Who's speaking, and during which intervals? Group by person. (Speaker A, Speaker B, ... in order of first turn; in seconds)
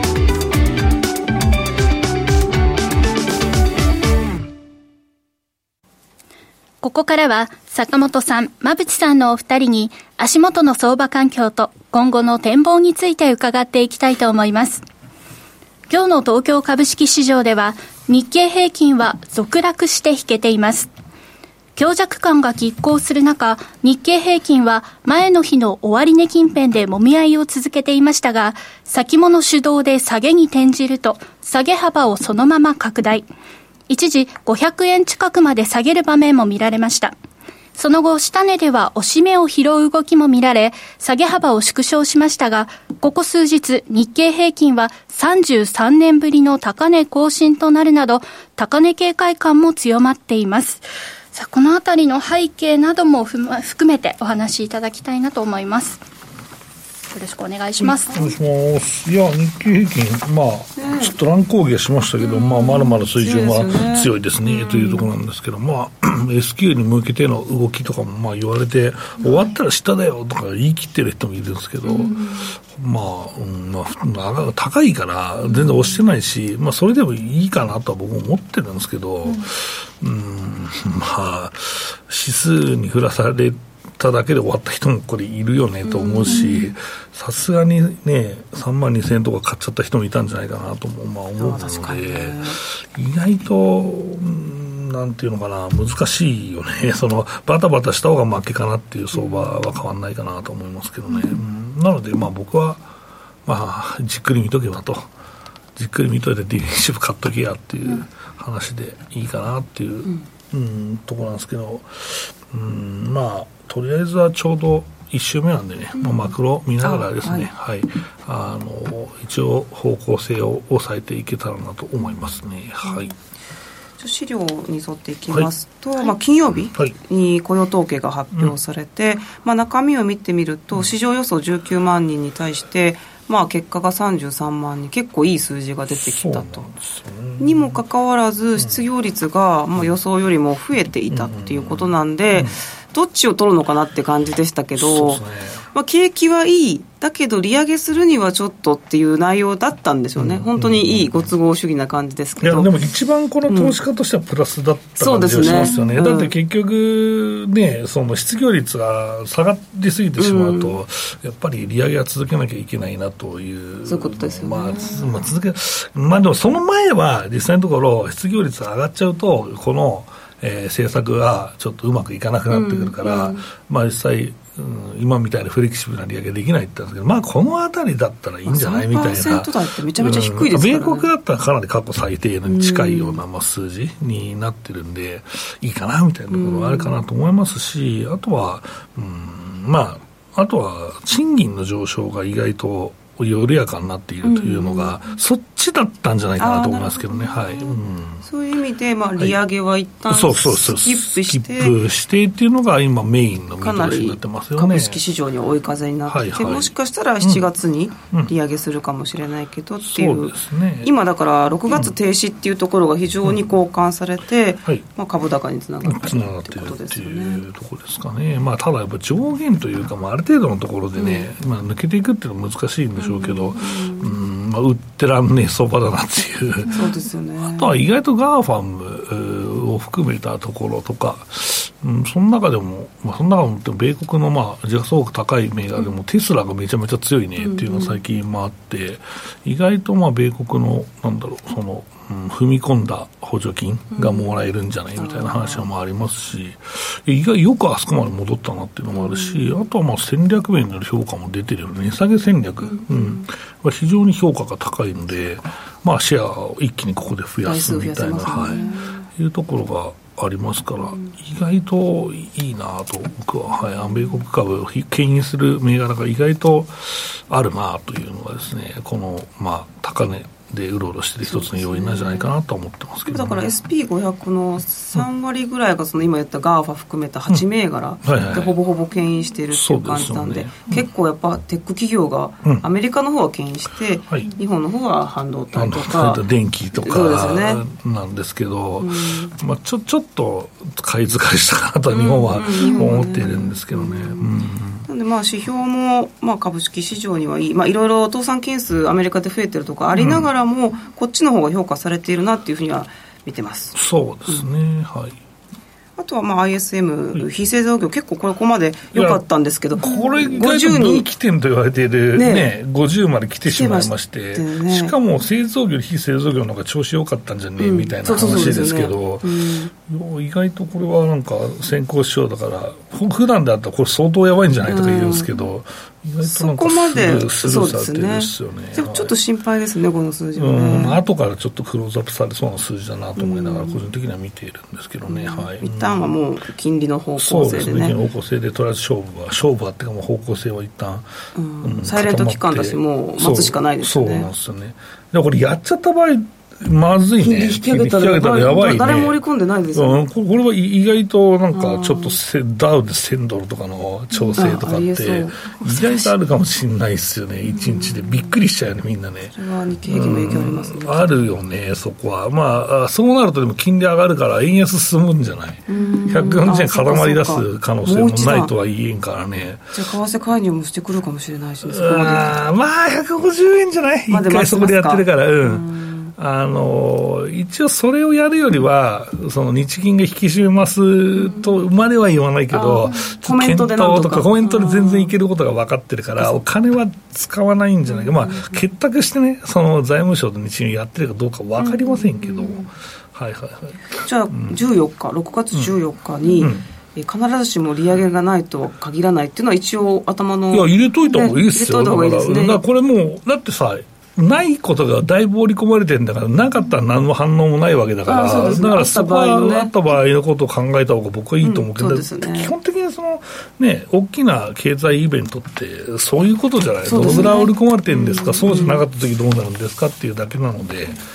Speaker A: 6.8-14.8, 15.9-20.9, 21.8-33.3, 33.9-37.1, 37.8-56.0, 57.1-58.2, 86.3-86.7, 292.6-293.0
Speaker B: 58.1-102.8, 103.5-105.1, 105.8-123.2, 135.9-137.8, 138.6-138.8, 141.1-142.6, 144.8-145.7, 150.2-151.3, 152.4-198.2, 200.1-205.0, 206.1-207.5, 209.9-210.9, 215.8-273.5, 278.0-278.6, 279.5-280.8, 285.5-294.9, 299.9-300.3, 303.8-305.2, 308.9-309.2, 309.8-329.1, 330.4-336.0, 337.2-341.1, 341.6-349.2, 349.7-359.3, 359.9-369.8, 371.6-394.6, 396.4-396.6, 400.5-421.0
Speaker C: 60.8-61.1, 62.2-65.1, 71.8-72.3, 75.5-75.9, 85.8-86.7, 91.4-92.6, 99.2-99.5, 116.0-116.3, 116.8-117.5, 124.0-136.7, 137.4-145.2, 145.7-152.7, 153.5-153.8, 155.0-156.3, 160.2-160.8, 163.9-165.1, 172.5-173.4, 178.5-181.1, 182.5-183.2, 186.3-187.0, 194.2-195.2, 196.4-201.8, 203.6-217.4, 221.0-221.3, 223.0-224.1, 226.7-227.8, 237.4-238.0, 243.9-244.3, 245.0-245.7, 248.9-249.5, 252.7-253.2, 257.4-259.1, 263.7-264.1, 271.3-272.3, 273.1-286.2, 286.8-287.6, 288.8-289.3, 291.9-294.3, 294.9-303.8, 306.0-311.1, 312.1-312.5, 313.4-314.9, 317.6-319.7, 324.6-325.3, 326.2-331.0, 333.2-333.8, 335.1-338.0, 341.4-344.3, 347.2-350.1, 351.5-352.2, 354.3-356.1, 357.5-358.2, 359.3-361.2, 365.7-368.5, 369.7-372.4, 374.1-376.1, 381.2-381.5, 382.5-385.1, 387.9-388.6, 391.6-392.7, 394.0-402.6, 408.1-409.7, 411.4-412.5, 416.9-418.8